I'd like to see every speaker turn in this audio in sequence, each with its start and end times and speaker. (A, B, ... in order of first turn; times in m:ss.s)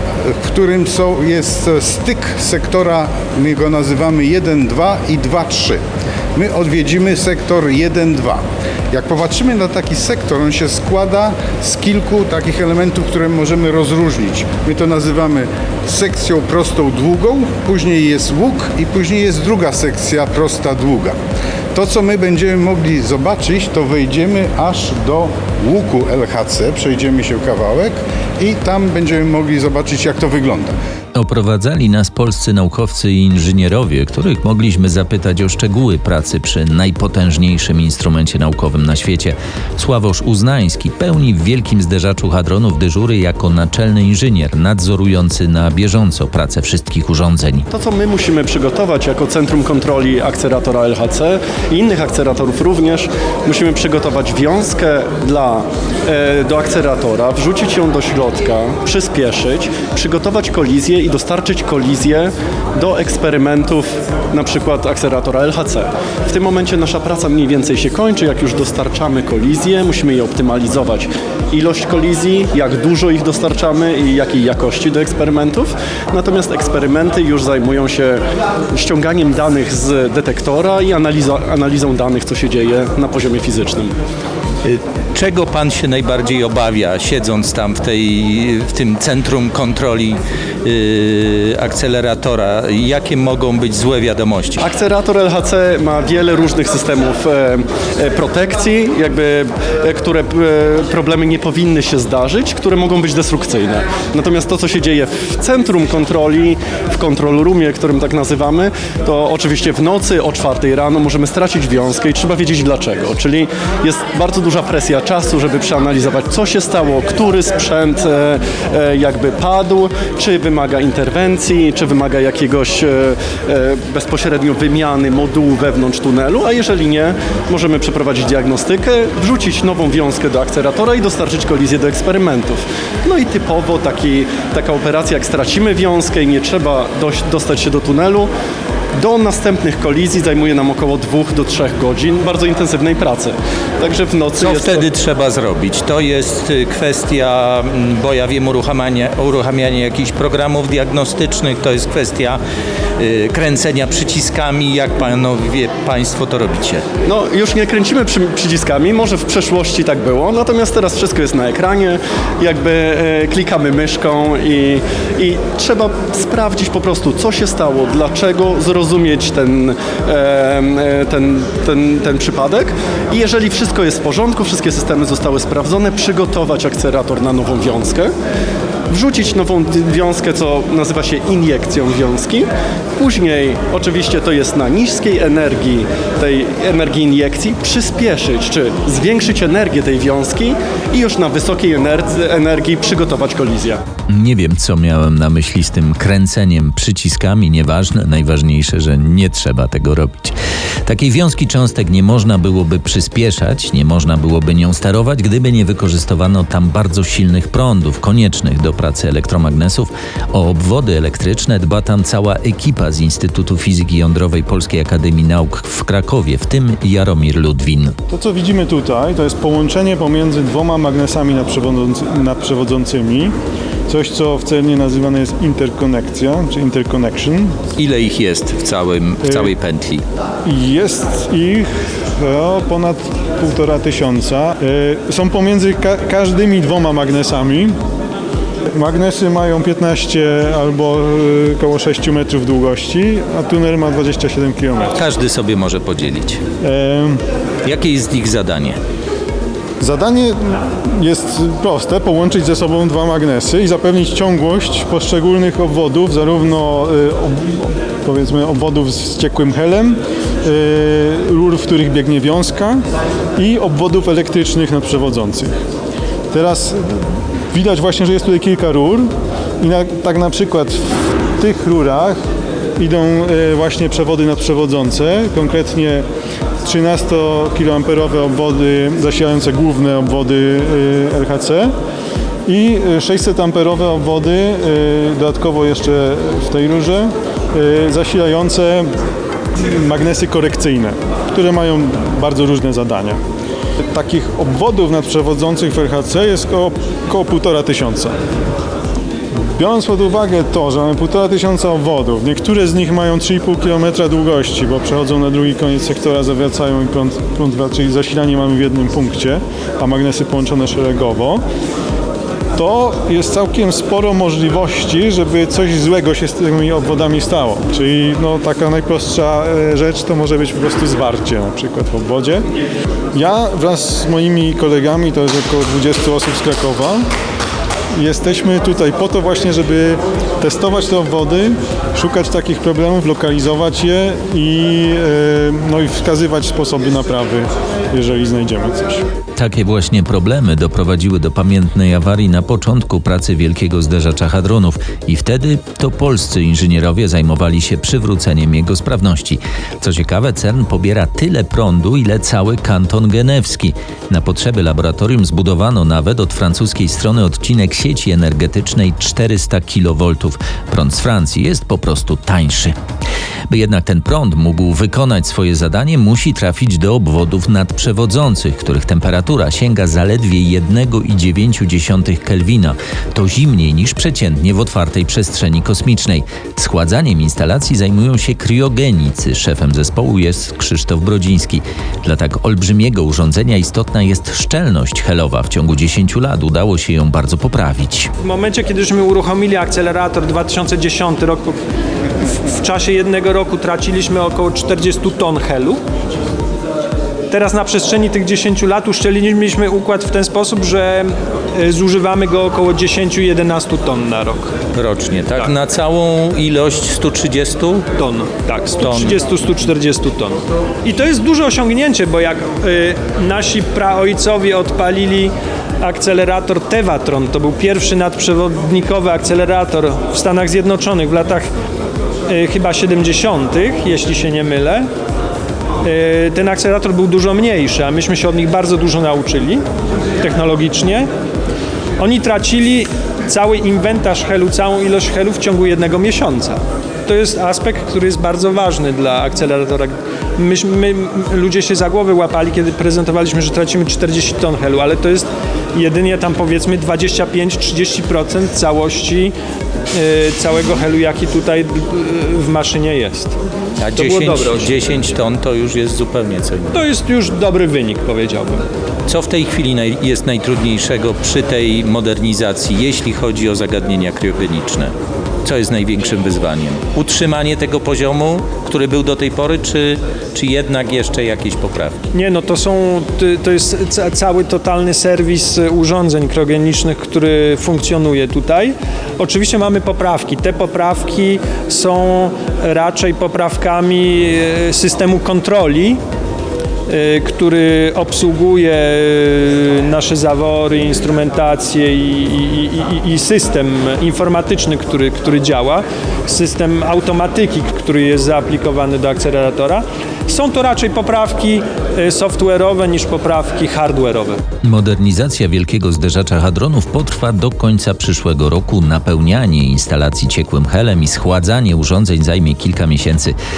0:00.2-0:05.8 A
0:06.3-0:21.2 A
0:21.7-0:30.7 A
0:31.1-0:47.7 B
0:47.7-1:23.9 C
1:24.6-1:34.6 B
1:34.6-2:18.3 C
2:19.0-2:24.9 C
2:24.4-2:32.4 B
2:33.0-2:36.8 B
2:37.0-2:58.1 C
2:58.9-3:13.8 C
3:14.1-3:38.0 B
3:38.1-3:43.3 D
3:43.9-3:47.5 D
3:47.8-3:50.0 B
3:49.2-3:49.5 D
3:50.4-3:57.8 D
3:58.7-4:05.0 D
4:04.9-4:06.4 B
4:06.6-4:07.2 D
4:07.6-4:08.8 B
4:09.8-4:22.8 D
4:23.4-4:25.5 D
4:26.3-4:32.2 D
4:32.8-4:36.0 D
4:36.6-4:41.7 D
4:42.4-4:48.9 D
4:49.6-4:53.2 D
4:53.9-4:58.1 D
4:59.5-5:11.4 D
5:12.6-5:22.4 D
5:23.1-5:27.0 D
5:27.9-5:39.0 D
5:39.4-6:02.8 B
6:03.5-6:28.1 B
6:28.2-6:31.6 E
6:32.4-6:35.8 E
6:37.3-6:44.5 E
6:44.7-6:47.8 B
6:48.0-7:01.5 E
6:48.8-6:49.2 B
7:02.3-7:04.9 E
7:05.8-7:09.6 E
7:10.2-7:11.1 E
7:12.0-7:29.3 E
7:29.9-7:33.4 E
7:33.8-7:36.8 B
7:33.9-7:34.7 E
7:36.7-7:38.6 E
7:39.1-7:52.0 B
7:52.1-8:06.0 E
8:06.9-8:24.4 E
8:24.6-8:33.4 B